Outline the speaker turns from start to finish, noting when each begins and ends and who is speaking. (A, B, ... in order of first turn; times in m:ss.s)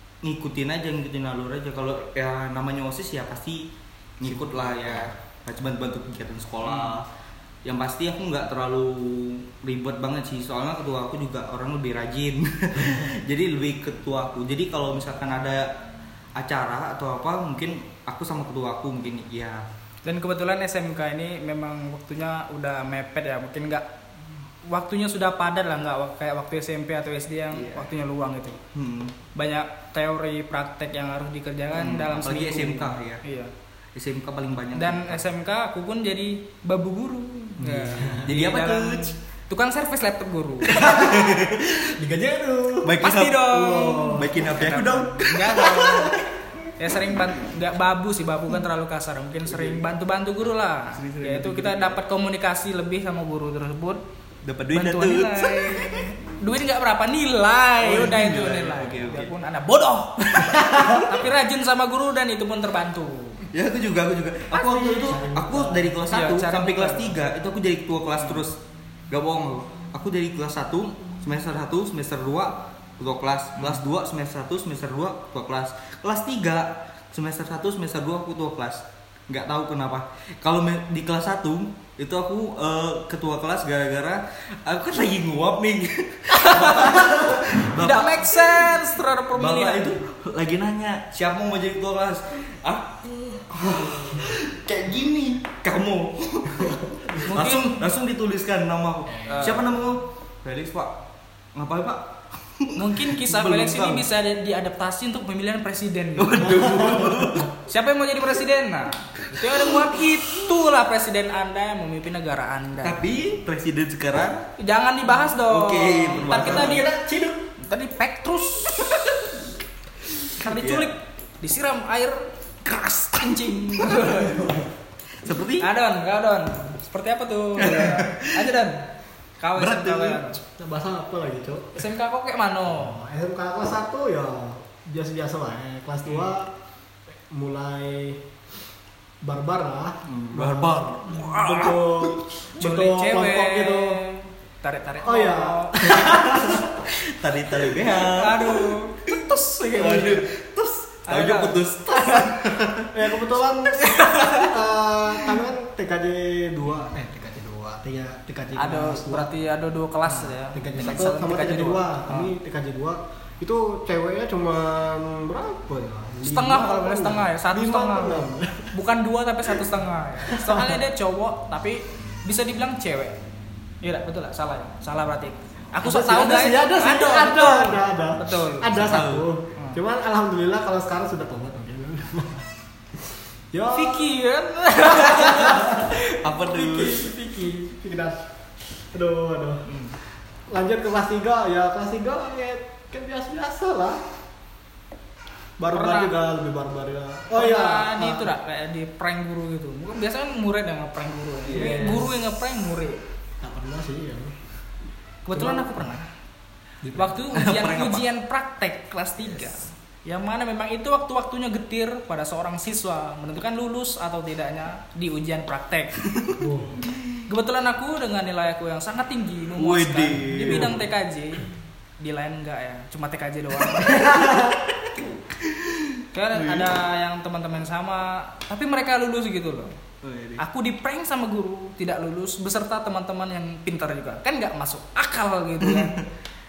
0:00.2-0:03.7 A
0:04.2-0:07.1 A
0:06.6-0:07.0 B
0:07.6-0:15.7 A
0:16.4-0:19.6 A
0:20.0-0:23.9 B
0:24.6-0:28.6 B
0:27.5-0:27.9 A
0:28.7-0:29.2 A
0:29.4-0:33.5 B
0:31.7-0:33.2 A
0:34.0-0:35.2 A
0:34.8-0:41.2 B
0:37.6-0:39.2 A
0:40.7-0:42.0 A
0:42.0-0:43.0 C
0:42.8-0:46.2 A
0:43.0-0:46.2 B
0:43.5-0:44.9 C
0:46.8-0:54.0 B
0:49.5-0:49.8 A
0:50.9-0:52.0 A
0:54.4-0:56.1 A
0:54.7-1:03.4 B
0:57.8-0:59.3 A
1:00.2-1:01.2 A
1:03.5-1:08.6 A
1:04.5-1:05.9 C
1:06.1-1:07.1 B
1:08.2-1:08.5 B
1:09.1-1:28.8 A
1:13.6-1:13.8 B
1:26.3-1:30.0 B
1:29.3-1:40.9 A
1:37.2-1:37.9 B
1:39.3-1:39.6 B
1:41.6-1:44.1 A
1:42.8-1:46.6 B
1:46.2-1:47.5 A
1:47.5-1:53.0 B
1:49.3-1:49.9 A
1:52.8-1:54.5 A
1:54.6-1:59.2 B
1:55.1-1:57.0 A
1:58.7-1:59.2 A
2:00.3-2:04.6 B
2:00.3-2:00.9 A
2:04.2-2:04.6 C
2:05.2-2:05.7 A
2:05.6-2:08.9 B
2:07.6-2:08.5 A
2:09.4-2:10.4 B
2:09.6-2:10.2 A
2:10.6-2:11.9 C
2:11.8-2:13.0 B
2:12.7-2:16.5 C
2:16.1-2:16.3 B
2:17.3-2:18.2 C
2:19.2-2:24.0 C
2:20.0-2:22.2 A
2:21.2-2:21.8 B
2:22.6-2:26.1 B
2:25.0-2:26.7 C
2:25.8-2:32.9 A
2:27.9-2:30.2 B
2:31.1-2:32.2 B
2:32.9-2:39.4 C
2:33.7-2:34.5 B
2:36.7-2:36.9 B
2:38.6-2:42.2 B
2:40.1-2:48.8 C
2:46.2-2:53.2 B
2:50.2-2:50.8 C
2:53.8-2:59.0 B
2:55.8-3:02.5 C
2:58.7-2:59.3 A
2:59.6-2:59.8 B
3:03.5-3:04.2 C
3:03.7-3:07.8 B
3:05.0-3:07.1 A
3:07.7-3:08.3 C
3:08.9-3:09.7 C
3:09.7-3:10.0 B
3:10.5-3:14.0 C
3:15.6-3:18.3 C
3:15.7-3:16.1 B
3:17.3-3:23.0 B
3:21.5-3:22.1 C
3:21.5-3:22.1 A
3:23.4-3:24.4 C
3:25.3-3:26.1 B
3:25.3-3:25.9 C
3:26.8-3:27.2 C
3:26.9-3:36.0 B
3:27.3-3:28.1 A
3:36.1-3:36.4 A
3:36.4-3:36.8 C
3:36.9-3:37.2 A
3:37.3-3:44.5 B
3:39.6-3:40.8 A
3:40.3-3:40.8 C
3:43.6-3:46.7 A
3:46.1-3:49.7 B
3:50.0-3:50.4 A
3:50.4-3:56.0 B
3:55.6-3:56.1 A